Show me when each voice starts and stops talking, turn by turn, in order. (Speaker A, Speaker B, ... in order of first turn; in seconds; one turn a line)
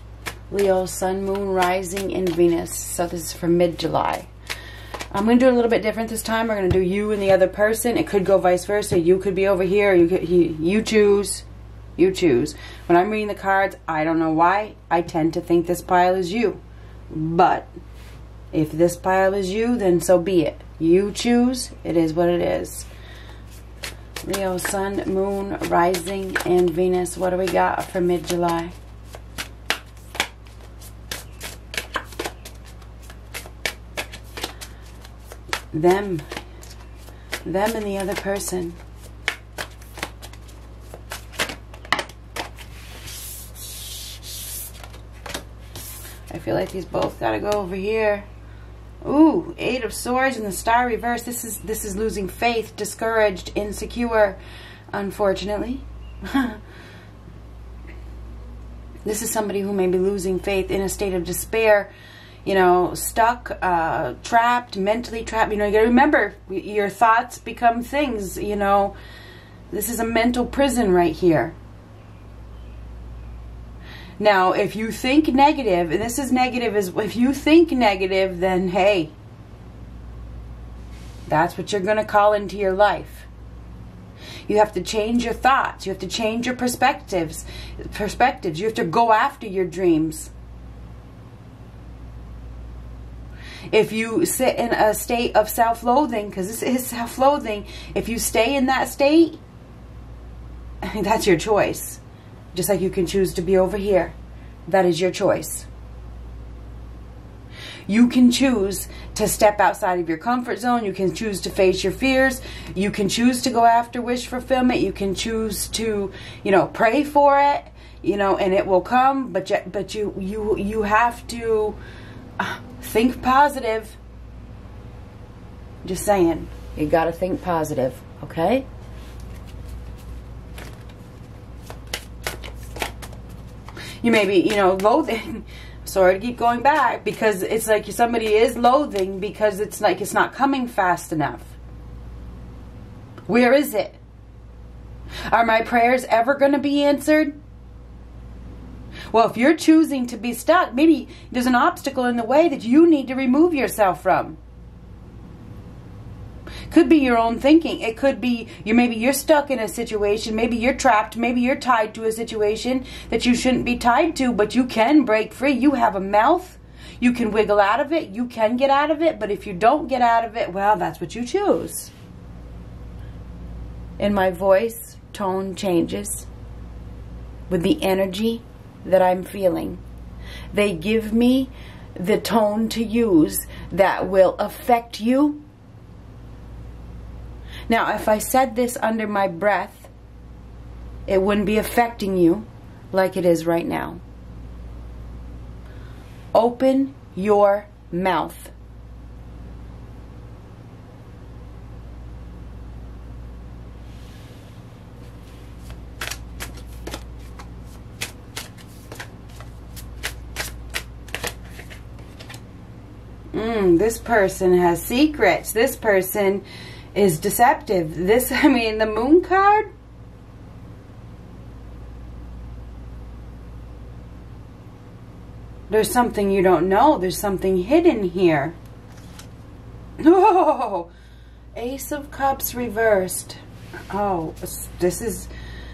Speaker A: 0.5-4.3
Speaker A: 5.1-11.4
Speaker A: 12.0-17.7
Speaker A: 18.5-22.9
Speaker A: 24.2-28.7
Speaker A: 35.7-36.2
Speaker A: 37.4-38.8
Speaker A: 46.3-48.2
Speaker A: 49.0-54.4
Speaker A: 54.9-56.6
Speaker A: 59.0-61.9
Speaker A: 62.4-68.9
Speaker A: 69.7-71.5
Speaker A: 74.2-79.1
Speaker A: 81.3-83.3
Speaker A: 84.5-90.3
Speaker A: 93.7-99.4
Speaker A: 100.8-102.0
Speaker A: 102.5-104.1
Speaker A: 104.7-105.7
Speaker A: 107.9-121.8
Speaker A: 122.4-124.0
Speaker A: 125.8-128.7
Speaker A: 134.0-141.5
Speaker A: 143.3-144.0
Speaker A: 145.3-147.4
Speaker A: 149.1-154.4
Speaker A: 156.7-171.9
Speaker A: 174.0-176.3
Speaker A: 177.5-179.8
Speaker A: 180.5-185.4
Speaker A: 187.7-189.9
Speaker A: 191.1-194.0
Speaker A: 196.3-198.5
Speaker A: 213.3-219.7
Speaker A: 225.7-228.6
Speaker A: 230.0-230.9
Speaker A: 231.6-233.4
Speaker A: 233.9-235.3